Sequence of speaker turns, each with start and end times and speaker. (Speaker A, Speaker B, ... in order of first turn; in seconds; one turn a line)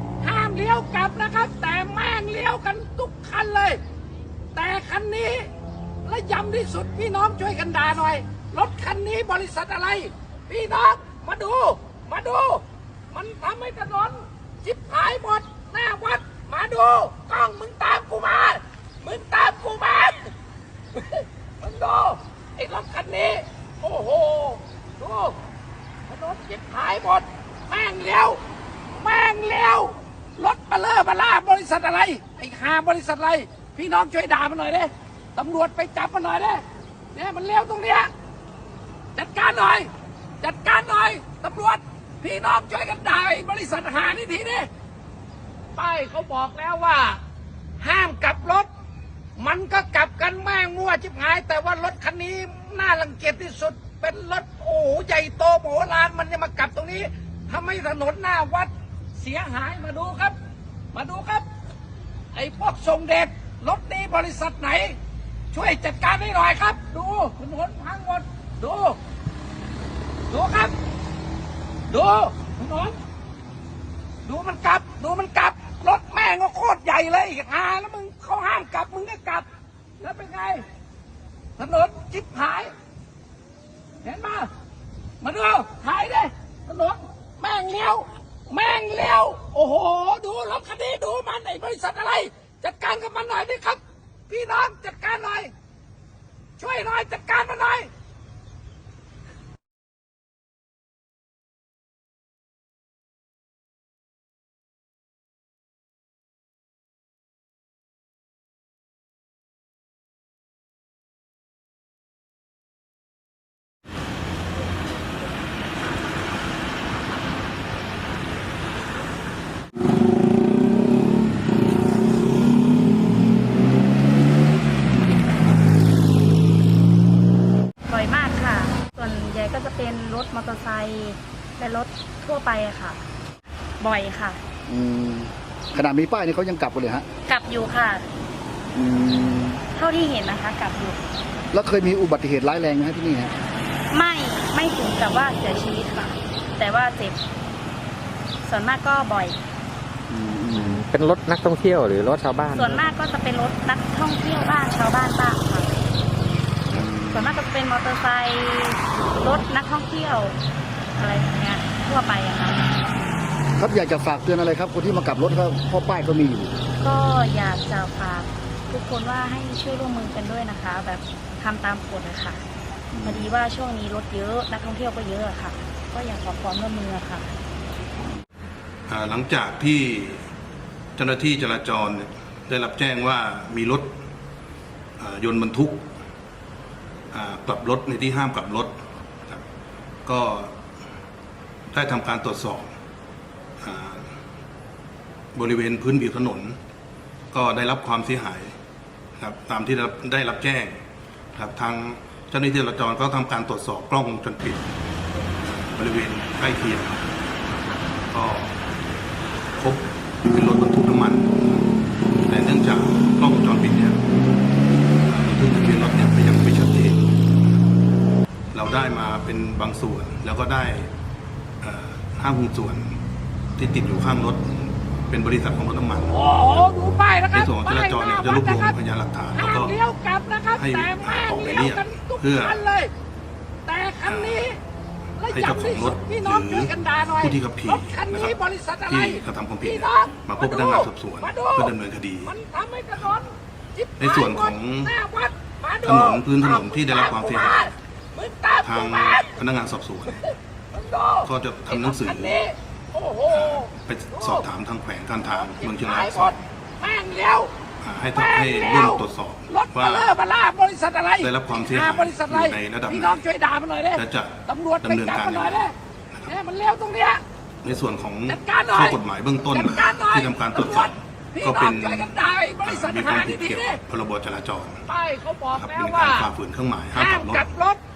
Speaker A: 0.2-3.8
Speaker A: 4.5-5.5
Speaker A: 6.0-20.3
Speaker A: 20.9-25.4
Speaker A: 26.1-28.4
Speaker A: 28.9-38.1
Speaker A: 39.2-39.9
Speaker A: 40.4-44.7
Speaker A: 45.8-47.2
Speaker A: 47.8-48.7
Speaker A: 49.4-60.4
Speaker A: 60.9-61.5
Speaker A: 62.4-65.0
Speaker A: 65.5-69.0
Speaker A: 70.3-70.7
Speaker A: 71.9-73.0
Speaker A: 74.3-79.5
Speaker A: 80.0-80.6
Speaker A: 81.6-82.7
Speaker A: 84.0-84.5
Speaker A: 85.2-95.5
Speaker A: 96.6-97.9
Speaker B: 127.9-133.0
Speaker B: 133.8-134.4
Speaker C: 134.7-137.1
Speaker B: 137.3-138.0
Speaker C: 138.7-139.6
Speaker B: 139.7-141.0
Speaker C: 141.5-143.3
Speaker B: 143.9-147.2
Speaker B: 148.4-149.4
Speaker C: 150.1-150.8
Speaker D: 150.6-152.8
Speaker B: 152.5-155.7
Speaker C: 156.7-157.4
Speaker B: 157.1-160.4
Speaker B: 161.0-162.7
Speaker C: 163.6-166.5
Speaker B: 166.8-172.4
Speaker C: 172.9-173.3
Speaker B: 173.0-177.3
Speaker E: 178.9-180.2
Speaker E: 181.0-184.0
Speaker E: 185.0-185.9
Speaker E: 187.1-188.8
Speaker E: 190.1-190.6
Speaker E: 191.7-192.7
Speaker E: 193.6-194.1
Speaker E: 195.3-196.6
Speaker E: 197.3-198.5
Speaker E: 199.2-200.8
Speaker E: 201.3-204.7
Speaker E: 205.5-207.0
Speaker E: 208.1-208.6
Speaker E: 209.6-211.7
Speaker E: 212.3-214.0
Speaker E: 215.1-217.1
Speaker E: 218.5-220.9
Speaker E: 221.6-222.9
Speaker E: 223.6-226.2
Speaker A: 226.1-228.7
Speaker E: 227.3-229.8
Speaker A: 229.3-232.9
Speaker E: 230.6-232.7
Speaker A: 233.7-234.6
Speaker E: 234.1-234.5
Speaker A: 235.2-241.7
Speaker E: 235.3-242.3
Speaker A: 242.2-249.3
Speaker E: 244.0-245.0
Speaker E: 245.8-247.7
Speaker E: 248.6-250.2
Speaker A: 250.7-254.4
Speaker E: 251.2-252.4
Speaker E: 253.3-256.4
Speaker A: 255.3-257.5
Speaker E: 257.8-260.2
Speaker A: 258.1-265.7
Speaker E: 261.2-263.2
Speaker E: 263.9-265.7
Speaker A: 266.3-267.2
Speaker E: 267.6-274.8
Speaker A: 268.3-273.8
Speaker A: 274.9-276.3
Speaker E: 275.5-277.5
Speaker A: 276.9-277.8